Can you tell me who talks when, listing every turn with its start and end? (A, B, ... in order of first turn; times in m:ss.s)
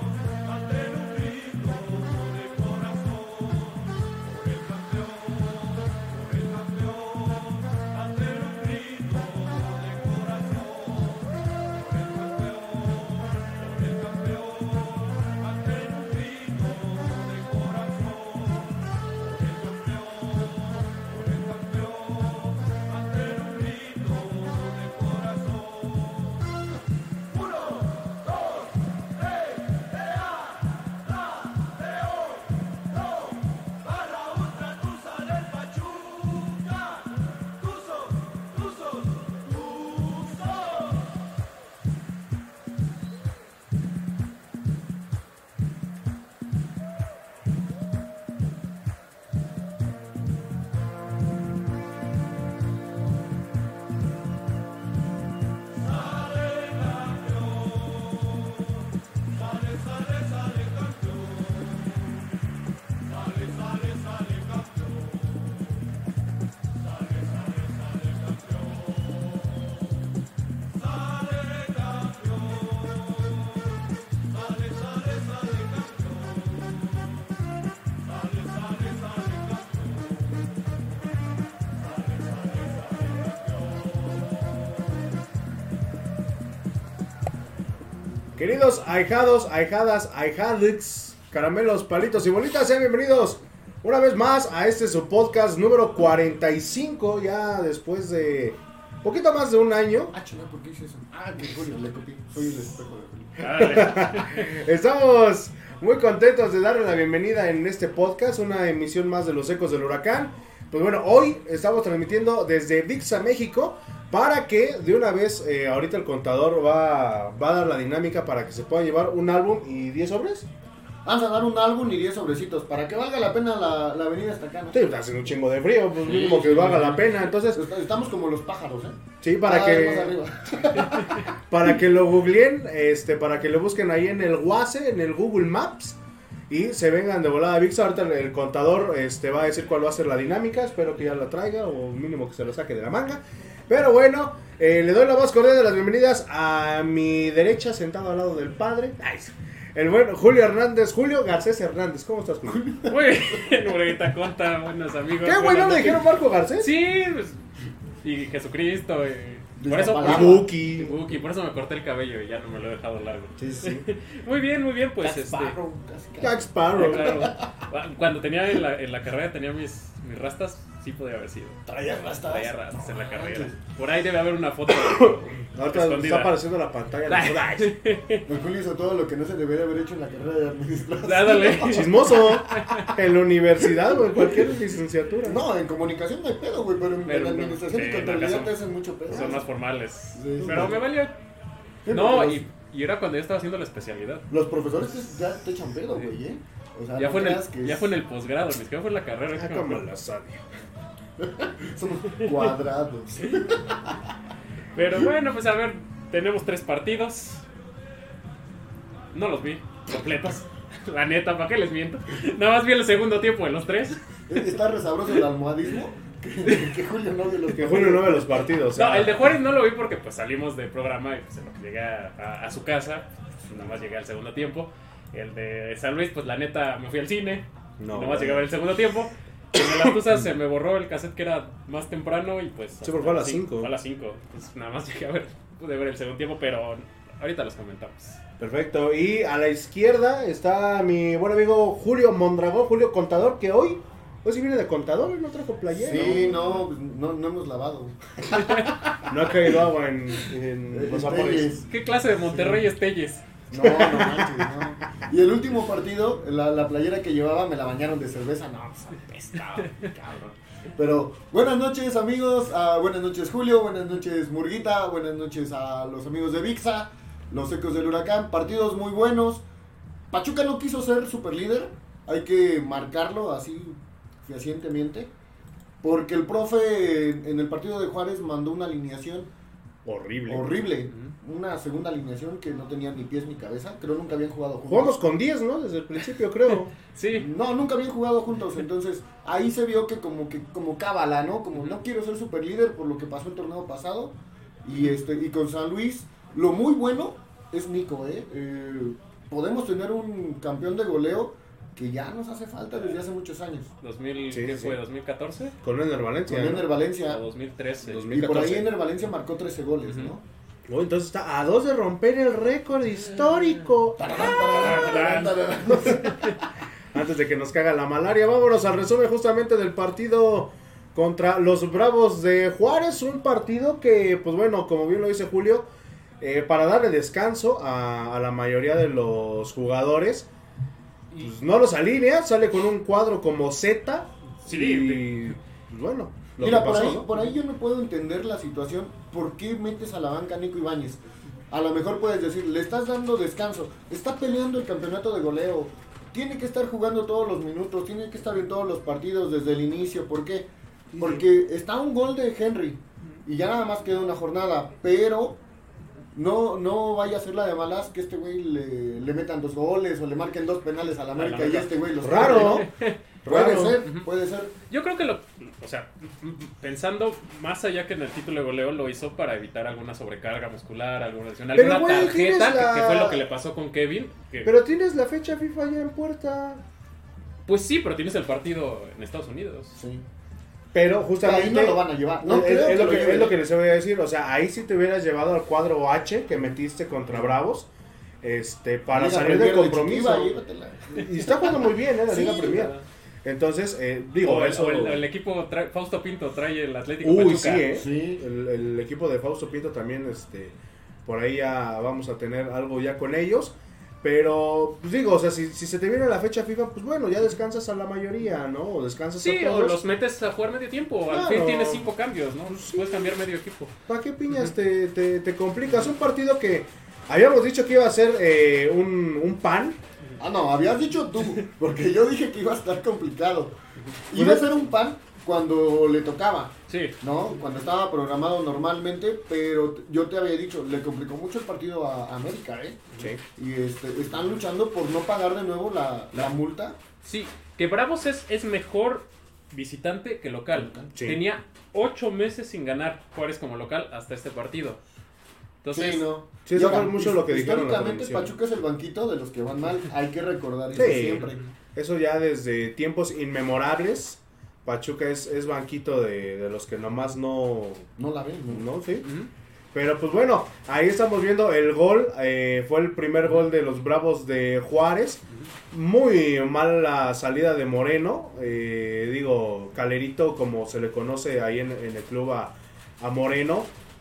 0:00.9-0:02.7 A
0:08.2-0:09.6 A
0:15.8-0:18.4 A
0:23.3-0:24.7 A
1:28.4-1:40.1 B
1:40.1-1:43.8 C
1:43.4-1:44.5 A
1:43.5-2:00.5 B
2:01.0-2:04.8 C
2:04.7-2:07.6 B
2:06.0-2:11.3 C
2:09.2-2:10.2 B
2:11.3-2:32.9 B
2:32.8-2:37.4 A
2:35.2-2:36.7 B
2:38.0-2:45.6 A
2:39.6-2:40.5 C
2:40.0-2:40.9 B
2:43.4-2:43.9 B
2:45.0-2:47.4 C
2:46.2-2:47.3 B
2:46.7-2:51.6 A
2:51.6-2:53.6 C
2:52.2-2:56.4 A
2:54.8-2:57.8 B
2:57.1-2:58.3 A
2:58.3-3:02.4 C
3:01.0-3:03.0 A
3:01.7-3:05.4 B
3:05.2-3:09.5 C
3:07.0-3:08.6 A
3:09.1-3:11.2 A
3:09.1-3:09.4 B
3:10.1-3:10.8 C
3:10.4-3:10.8 B
3:11.8-3:12.4 C
3:11.9-3:14.2 A
3:14.3-3:17.9 C
3:17.0-3:19.8 A
3:19.3-3:20.4 B
3:21.2-3:24.0 C
3:24.7-3:27.4 A
3:29.1-3:34.5 A
3:34.3-3:38.5 C
3:37.5-3:39.2 B
3:38.7-3:58.2 A
3:47.8-3:48.5 B
3:49.8-3:50.3 B
3:52.8-3:53.7 B
3:58.4-4:06.6 B
4:05.7-4:09.0 C
4:08.3-4:08.7 A
4:09.0-4:11.6 B
4:10.7-4:11.7 C
4:11.7-4:13.3 A
4:12.2-4:12.7 C
4:13.5-4:29.4 C
4:13.6-4:14.5 B
4:30.1-4:35.1 C
4:35.8-4:39.3 C
4:39.8-4:40.6 B
4:40.3-4:45.0 C
4:44.7-4:46.7 B
4:46.5-4:47.3 A
4:47.1-5:03.7 C
5:03.8-5:05.5 A
5:04.3-5:04.8 B
5:05.6-5:06.7 B
5:06.2-5:07.2 C
5:07.0-5:08.0 A
5:07.8-5:08.7 B
5:08.1-5:10.2 C
5:09.9-5:10.1 A
5:10.7-5:15.0 B
5:14.0-5:16.3 C
5:14.5-5:16.4 A
5:16.9-5:25.7 B
5:26.2-5:30.3 B
5:31.2-5:37.1 B
5:34.4-5:35.4 A
5:36.4-5:55.4 C
5:50.9-5:51.2 B
5:56.1-6:02.7 C
6:01.1-6:03.0 A
6:02.0-6:02.7 B
6:03.2-6:03.8 B
6:03.2-6:04.5 C
6:04.7-6:14.5 A
6:11.5-6:13.2 B
6:14.4-6:16.6 B
6:17.4-6:19.8 A
6:19.8-6:20.0 C
6:20.7-6:27.7 B
6:21.2-6:23.4 C
6:28.2-6:30.3 B
6:28.9-6:31.3 C
6:30.9-6:35.0 B
6:32.1-6:32.7 C
6:32.1-6:32.8 A
6:34.2-6:37.7 A
6:37.0-6:40.5 B
6:37.6-6:38.2 C
6:41.0-6:49.8 B
6:49.2-6:53.7 A
6:51.1-6:51.9 B
6:52.4-6:53.0 B
6:53.9-6:59.8 B
7:00.2-7:03.6 C
7:04.1-7:16.8 C
7:04.1-7:04.6 B
7:06.7-7:07.0 A
7:17.0-7:24.8 A
7:20.5-7:20.9 C
7:20.9-7:21.2 B
7:25.6-7:26.1 A
7:25.7-7:31.4 C
7:26.4-7:28.4 B
7:30.7-7:37.9 B
7:31.2-7:31.5 A
7:38.0-7:38.6 C
7:38.5-7:39.1 B
7:39.0-7:39.3 A
7:39.7-7:53.7 B